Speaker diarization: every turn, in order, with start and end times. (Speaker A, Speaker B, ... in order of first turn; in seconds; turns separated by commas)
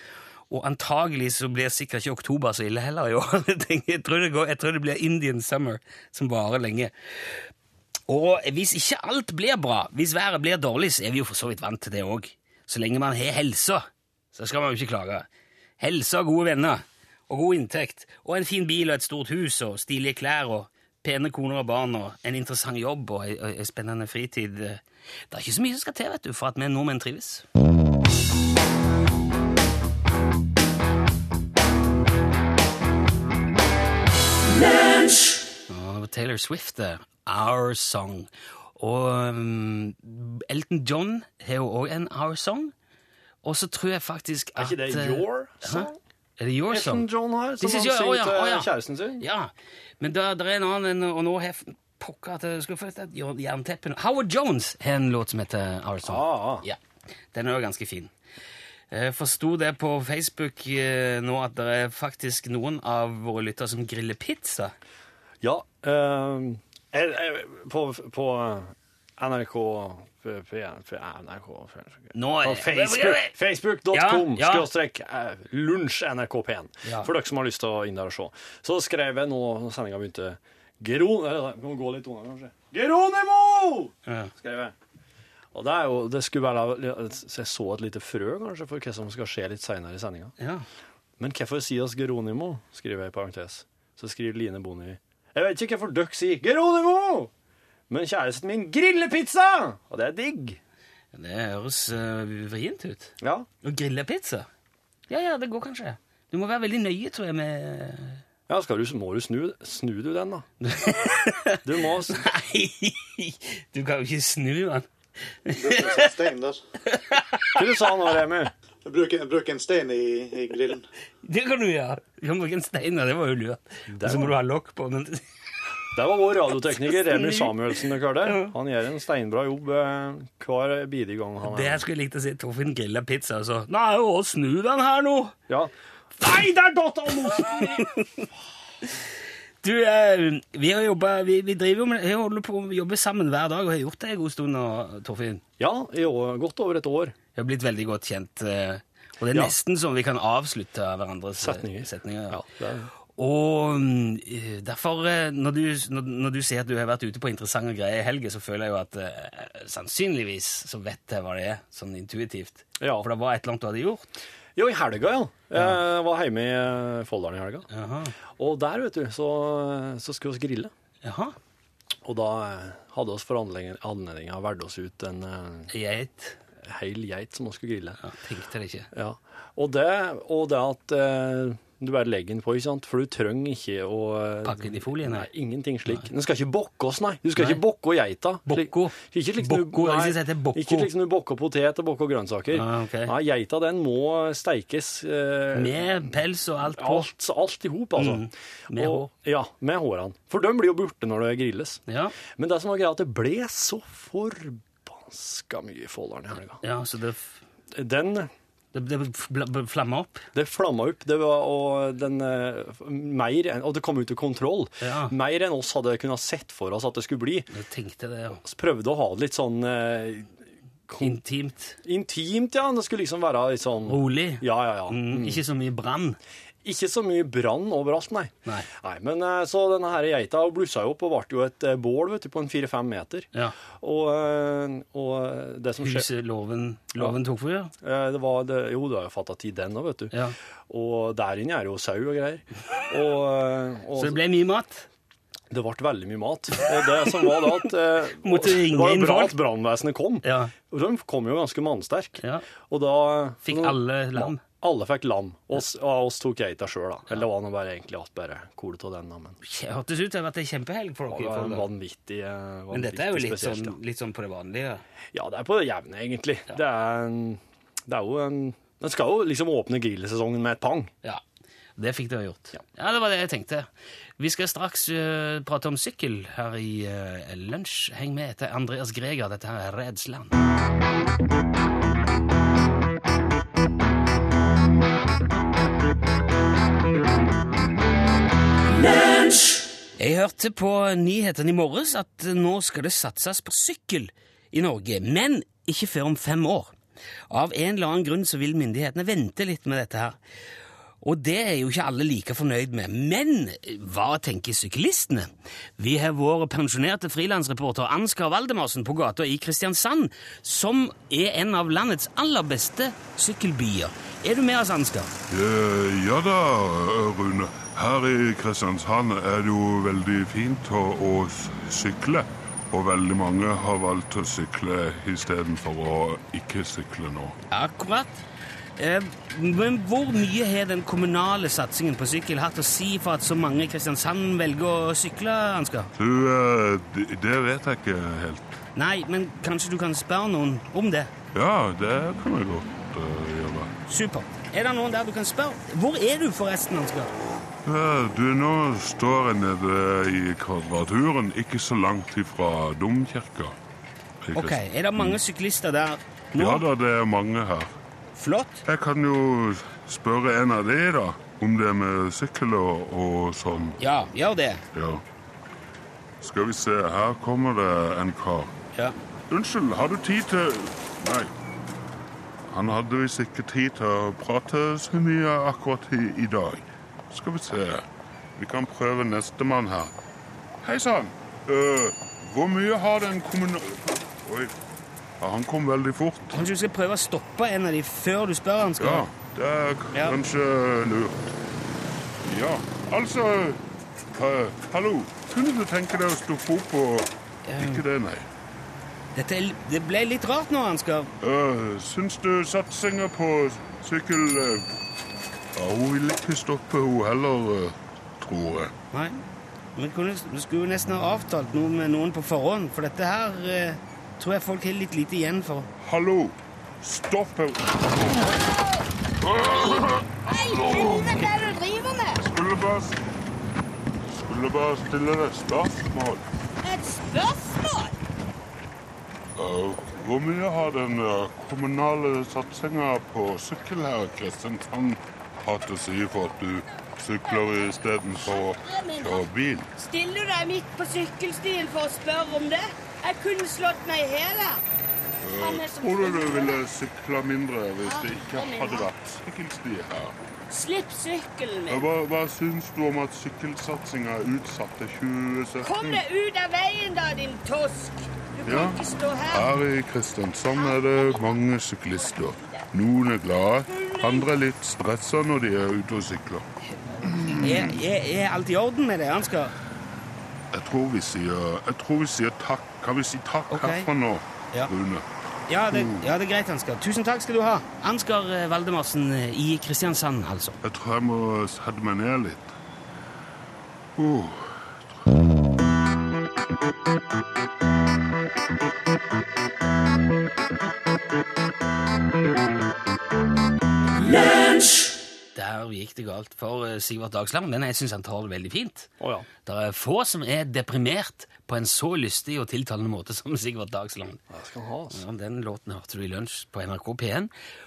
Speaker A: 0.5-6.9, Speaker A: 8.1-15.2, Speaker A: 15.8-27.4, Speaker A: 35.7-42.7, Speaker A: 43.4-47.1, Speaker B: 44.5-46.0, Speaker B: 46.7-49.2, Speaker A: 47.6-56.8, Speaker B: 56.0-56.6, Speaker A: 57.3-58.1, Speaker A: 58.9-64.7, Speaker B: 65.4-84.7, Speaker A: 72.1-73.3, Speaker A: 73.9-74.7, Speaker A: 76.8-77.1, Speaker A: 84.0-84.3, Speaker B: 85.5-90.3, Speaker A: 90.4-90.7, Speaker B: 91.2-97.3, Speaker B: 97.9-100.6, Speaker A: 101.1-104.5, Speaker B: 103.2-103.5, Speaker A: 105.1-108.2, Speaker B: 108.5-110.5, Speaker A: 110.6-114.9, Speaker B: 111.6-112.2, Speaker A: 115.4-116.1, Speaker C: 115.5-116.6, Speaker A: 116.8-117.6, Speaker B: 117.5-118.5, Speaker C: 118.8-120.8, Speaker A: 121.2-125.2, Speaker B: 123.9-124.3, Speaker B: 125.9-131.8, Speaker A: 127.0-128.5, Speaker A: 131.4-135.3, Speaker B: 135.5-137.9, Speaker A: 137.8-138.1, Speaker A: 139.6-145.4, Speaker B: 145.6-147.1, Speaker A: 147.3-152.4, Speaker B: 151.4-152.9, Speaker A: 153.2-164.2, Speaker B: 162.8-163.1, Speaker B: 164.6-167.7, Speaker A: 167.7-168.1, Speaker B: 168.3-170.7, Speaker A: 171.0-171.3, Speaker B: 172.0-175.7, Speaker A: 175.7-176.4, Speaker B: 176.6-178.0, Speaker A: 178.0-178.9, Speaker B: 178.9-195.9, Speaker A: 184.4-185.3, Speaker A: 187.4-187.6, Speaker A: 188.4-190.9, Speaker A: 192.5-193.1, Speaker A: 195.5-197.1, Speaker B: 196.7-206.6, Speaker A: 198.0-199.1, Speaker A: 201.9-202.1, Speaker A: 206.6-207.3, Speaker B: 207.7-208.3, Speaker A: 208.7-210.2, Speaker B: 210.3-217.5, Speaker A: 214.8-215.1, Speaker A: 217.5-218.4, Speaker B: 218.4-220.3, Speaker B: 220.9-221.2, Speaker A: 221.0-221.8, Speaker B: 221.8-225.4, Speaker A: 223.9-226.2, Speaker B: 226.6-236.1, Speaker A: 235.8-237.7, Speaker B: 237.8-240.1, Speaker B: 240.7-244.2, Speaker A: 243.9-244.9, Speaker B: 245.5-259.4, Speaker A: 248.2-249.4, Speaker A: 250.2-250.5, Speaker A: 252.2-252.4, Speaker A: 253.4-254.4, Speaker A: 259.4-261.7, Speaker B: 261.1-263.8, Speaker A: 262.7-264.8, Speaker B: 265.1-270.9, Speaker A: 271.8-280.4, Speaker A: 290.0-296.7, Speaker A: 297.3-300.2, Speaker A: 301.0-315.1, Speaker D: 315.3-327.4, Speaker A: 327.5-328.2, Speaker A: 328.8-335.9, Speaker D: 336.0-338.6, Speaker A: 338.8-341.1, Speaker D: 341.3-343.7, Speaker A: 343.9-347.1, Speaker D: 347.6-353.6, Speaker D: 354.2-355.2, Speaker A: 354.3-356.6, Speaker D: 356.4-357.7, Speaker A: 358.2-358.6, Speaker D: 358.6-363.8, Speaker A: 363.8-364.6, Speaker D: 364.7-365.0, Speaker D: 366.2-368.5, Speaker D: 369.3-371.3, Speaker D: 372.5-377.9, Speaker D: 378.4-379.9, Speaker D: 380.6-384.5, Speaker D: 385.2-386.4, Speaker A: 386.3-389.1, Speaker D: 388.8-391.3, Speaker A: 389.9-390.2, Speaker D: 392.2-393.6, Speaker D: 394.1-398.3, Speaker A: 397.5-397.8, Speaker A: 399.1-401.1, Speaker D: 401.2-404.7, Speaker D: 405.5-408.7, Speaker A: 408.9-409.2, Speaker A: 409.8-415.7, Speaker D: 415.8-418.4, Speaker E: 418.3-418.8, Speaker D: 419.2-421.2, Speaker E: 419.6-422.2, Speaker D: 422.2-423.0, Speaker D: 424.1-426.2, Speaker E: 426.6-427.9, Speaker D: 429.4-439.7, Speaker E: 438.3-444.6, Speaker D: 445.2-450.1, Speaker E: 445.4-446.6, Speaker E: 447.8-448.9, Speaker E: 450.5-451.8, Speaker D: 451.7-456.0, Speaker E: 455.6-459.5, Speaker D: 458.4-466.4, Speaker E: 460.5-461.4, Speaker E: 462.1-462.5, Speaker E: 463.7-464.3, Speaker D: 467.1-467.7, Speaker A: 467.2-469.5, Speaker D: 470.5-475.0, Speaker A: 473.5-473.9, Speaker A: 475.5-480.6, Speaker D: 475.7-476.1, Speaker D: 480.6-482.5, Speaker D: 483.9-484.9, Speaker A: 495.3-498.9, Speaker B: 499.0-499.3, Speaker A: 499.4-504.2, Speaker B: 504.3-505.0, Speaker A: 504.9-507.3